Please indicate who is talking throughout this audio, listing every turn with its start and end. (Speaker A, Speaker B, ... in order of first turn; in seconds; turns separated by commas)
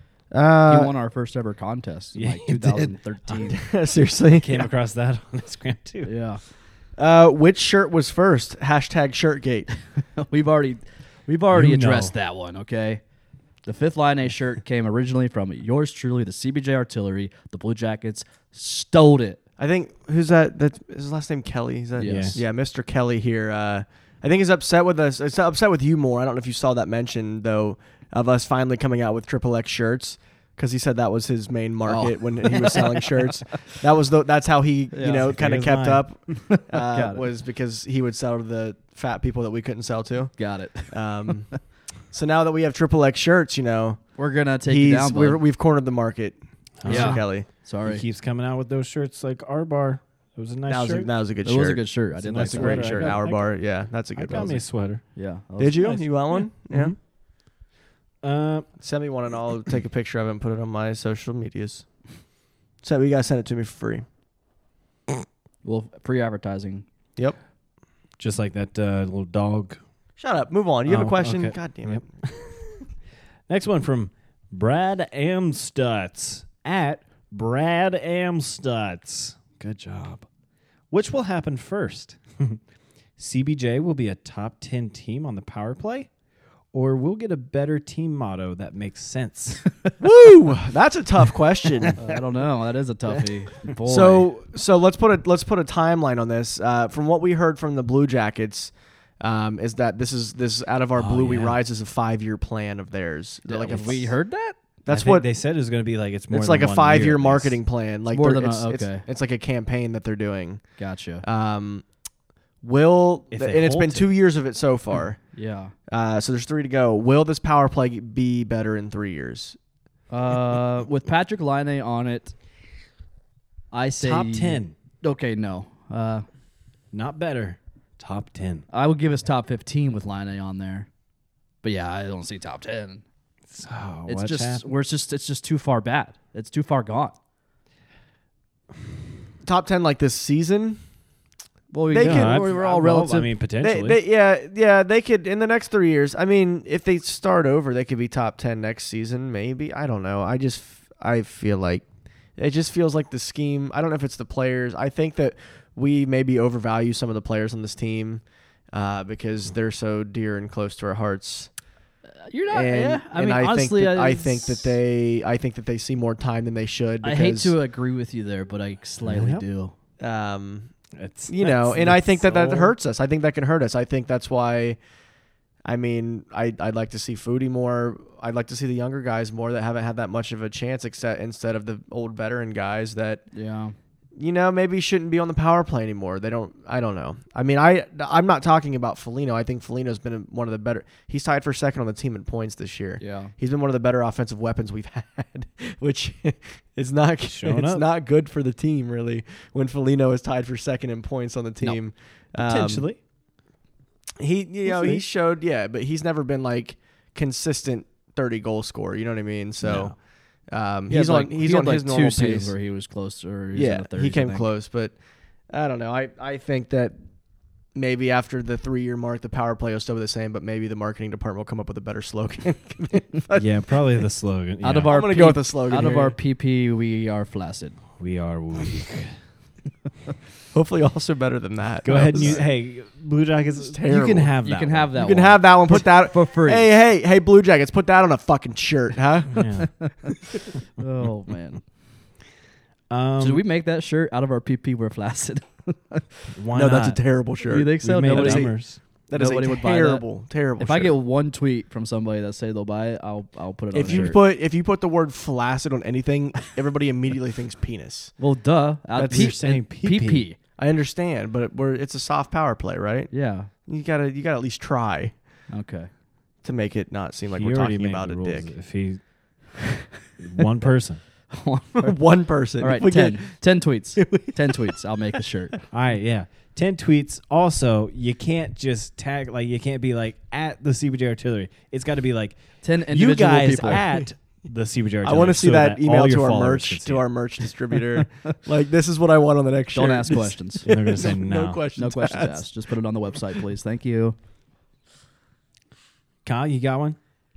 Speaker A: 0.3-0.9, Speaker B: 0.7-3.6, Speaker C: 2.1-3.5, Speaker A: 3.5-4.7, Speaker C: 4.3-6.1, Speaker B: 6.0-6.4, Speaker A: 7.0-9.7, Speaker B: 10.2-13.0, Speaker C: 11.5-12.2, Speaker B: 13.7-19.4, Speaker A: 19.6-44.1, Speaker B: 22.0-22.4, Speaker C: 22.0-22.4, Speaker B: 31.9-33.3, Speaker B: 34.9-35.3, Speaker C: 35.2-36.1, Speaker B: 36.5-37.2, Speaker B: 40.4-41.0, Speaker B: 44.2-45.4, Speaker A: 44.7-47.5, Speaker C: 46.8-47.3, Speaker B: 46.9-48.0, Speaker C: 47.8-51.1, Speaker A: 50.7-54.6, Speaker B: 51.4-53.2, Speaker C: 52.2-53.4, Speaker C: 54.2-55.0, Speaker B: 55.1-56.0, Speaker A: 55.6-56.9, Speaker C: 55.8-57.0, Speaker C: 58.2-58.7, Speaker A: 58.8-61.9, Speaker A: 62.8-64.0, Speaker B: 65.6-66.9, Speaker C: 68.2-69.8, Speaker A: 70.2-72.2, Speaker C: 70.9-72.6, Speaker C: 73.5-80.3, Speaker C: 80.9-82.6, Speaker C: 83.2-86.1, Speaker C: 86.7-89.7, Speaker A: 90.0-92.0, Speaker C: 91.9-92.2, Speaker B: 92.0-94.3, Speaker A: 93.8-104.2, Speaker C: 101.0-101.6, Speaker B: 103.5-104.6, Speaker A: 104.8-105.3, Speaker C: 104.9-107.6, Speaker A: 106.3-110.7, Speaker B: 108.1-109.0, Speaker B: 110.8-111.2, Speaker A: 111.2-111.8, Speaker A: 112.6-115.2, Speaker C: 113.3-114.1, Speaker B: 115.3-115.7, Speaker A: 115.9-119.6, Speaker B: 120.1-122.3, Speaker B: 123.7-126.3, Speaker C: 124.0-124.8, Speaker C: 126.9-128.7, Speaker B: 128.7-130.9, Speaker B: 131.6-133.0, Speaker C: 133.5-134.6, Speaker B: 134.1-137.2, Speaker A: 139.4-140.8, Speaker B: 141.7-143.3, Speaker A: 141.9-142.5, Speaker C: 142.0-144.0, Speaker A: 143.6-151.8, Speaker A: 152.4-161.5, Speaker B: 162.2-164.8, Speaker A: 162.5-167.5, Speaker B: 167.0-169.7, Speaker C: 169.0-169.4, Speaker A: 170.0-170.7, Speaker C: 171.0-172.8, Speaker A: 171.3-174.8, Speaker A: 175.7-183.2, Speaker B: 183.3-183.8, Speaker A: 184.2-202.9, Speaker B: 193.0-193.3, Speaker C: 197.2-197.8, Speaker C: 202.4-203.0, Speaker A: 204.2-209.9, Speaker C: 204.7-205.0, Speaker C: 209.6-209.9, Speaker A: 210.5-212.5, Speaker B: 210.9-214.5, Speaker A: 213.5-214.9, Speaker A: 215.5-217.0, Speaker A: 217.8-223.5, Speaker C: 223.3-225.0, Speaker B: 224.6-227.8, Speaker A: 224.9-226.2, Speaker C: 228.0-229.2, Speaker A: 230.5-232.5, Speaker C: 231.8-235.0, Speaker A: 233.6-234.3, Speaker B: 234.4-236.7, Speaker A: 234.9-239.4, Speaker C: 239.3-239.7, Speaker B: 240.8-241.6, Speaker C: 242.9-243.4, Speaker B: 243.2-246.3, Speaker C: 246.3-247.0, Speaker A: 246.5-251.0, Speaker B: 247.5-248.5, Speaker C: 247.8-248.8, Speaker B: 249.1-250.1, Speaker B: 250.6-254.2, Speaker A: 253.7-258.1, Speaker C: 253.8-254.1, Speaker B: 258.2-260.4, Speaker A: 259.0-259.4, Speaker C: 259.0-260.3, Speaker A: 260.6-265.1, Speaker B: 263.1-263.5, Speaker B: 265.5-265.9, Speaker A: 266.4-268.5, Speaker C: 267.3-269.0, Speaker C: 270.2-271.0, Speaker B: 271.3-272.0, Speaker A: 271.8-273.5, Speaker B: 272.6-275.6, Speaker A: 274.0-274.7, Speaker C: 275.7-282.4, Speaker B: 282.6-283.9, Speaker C: 282.9-287.1, Speaker A: 285.0-292.5, Speaker B: 289.7-290.7, Speaker C: 290.6-291.6, Speaker B: 291.8-294.2, Speaker C: 296.2-297.0